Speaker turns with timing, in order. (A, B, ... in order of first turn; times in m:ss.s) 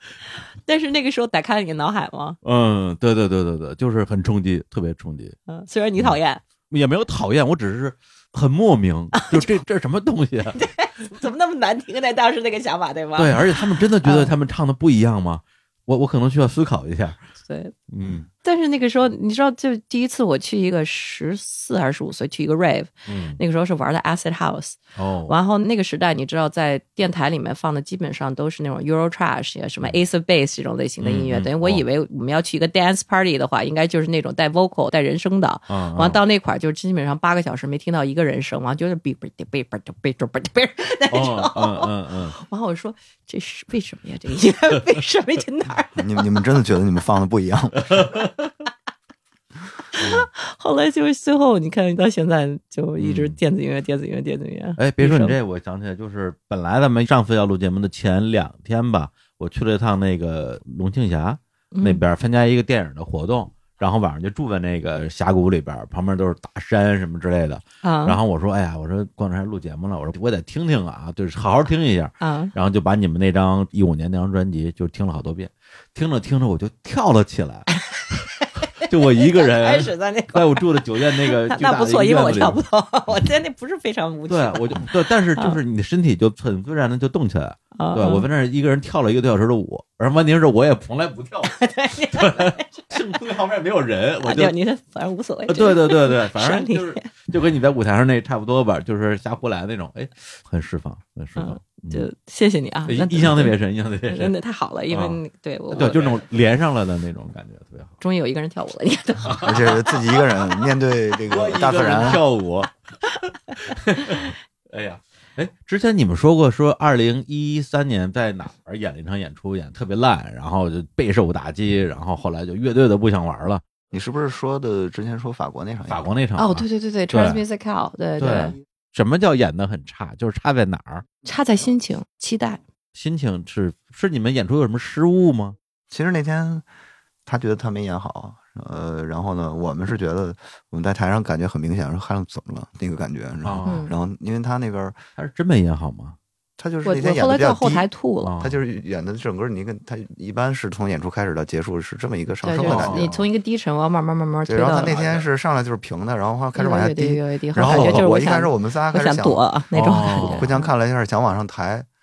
0:00.6-0:02.4 A
0:02.4-0:05.4 B
0:05.5-0:06.4 A
0:06.7-0:10.6 B
0:09.1-0:09.6 A
0:10.5-0:14.3 A
0:13.2-0:17.2 B
0:17.4-0:17.7 A
0:17.9-0:18.2 B
0:18.4-0:46.2 A
0:23.1-0:23.4 B
0:25.0-0:25.3 B
0:31.0-0:31.8 B
0:35.7-0:36.2 B
0:41.1-0:42.4 B
0:46.0-0:48.1 C
0:48.0-0:48.3 B
0:50.0-0:55.4 A
0:50.0-0:50.3 B
0:53.0-0:53.4 B
0:54.8-1:17.7 B
1:01.7-1:02.0 A
1:07.8-1:08.2 A
1:12.2-1:12.5 A
1:17.7-1:25.6 A
1:18.8-1:22.6 B
1:24.3-1:34.5 B
1:27.8-1:28.3 A
1:31.4-1:32.9 A
1:34.2-1:37.1 A
1:35.5-1:42.1 B
1:41.4-1:43.6 A
1:42.9-1:44.3 B
1:44.1-1:46.2 A
1:44.9-1:45.2 B
1:45.7-1:47.9 B
1:48.0-1:50.0 A
1:49.2-1:49.8 B
1:49.4-1:52.2 C
1:51.2-1:52.7 B
1:53.5-2:03.6 B
2:03.9-2:06.0 C
2:05.9-2:07.4 B
2:06.4-2:08.5 A
2:08.2-2:11.0 B
2:11.2-2:12.6 A
2:12.9-2:15.6 B
2:15.9-2:16.6 C
2:17.2-2:25.0 C
2:23.4-2:23.9 B
2:23.6-2:23.9 A
2:25.2-2:26.2 B
2:26.6-2:27.9 C
2:26.8-2:28.3 A
2:28.2-2:28.6 B
2:28.4-2:33.2 C
2:32.4-2:35.0 A
2:32.6-2:33.2 B
2:34.4-2:39.4 C
2:36.5-2:40.7 A
2:37.6-2:38.1 B
2:39.7-2:40.5 B
2:40.0-2:41.9 C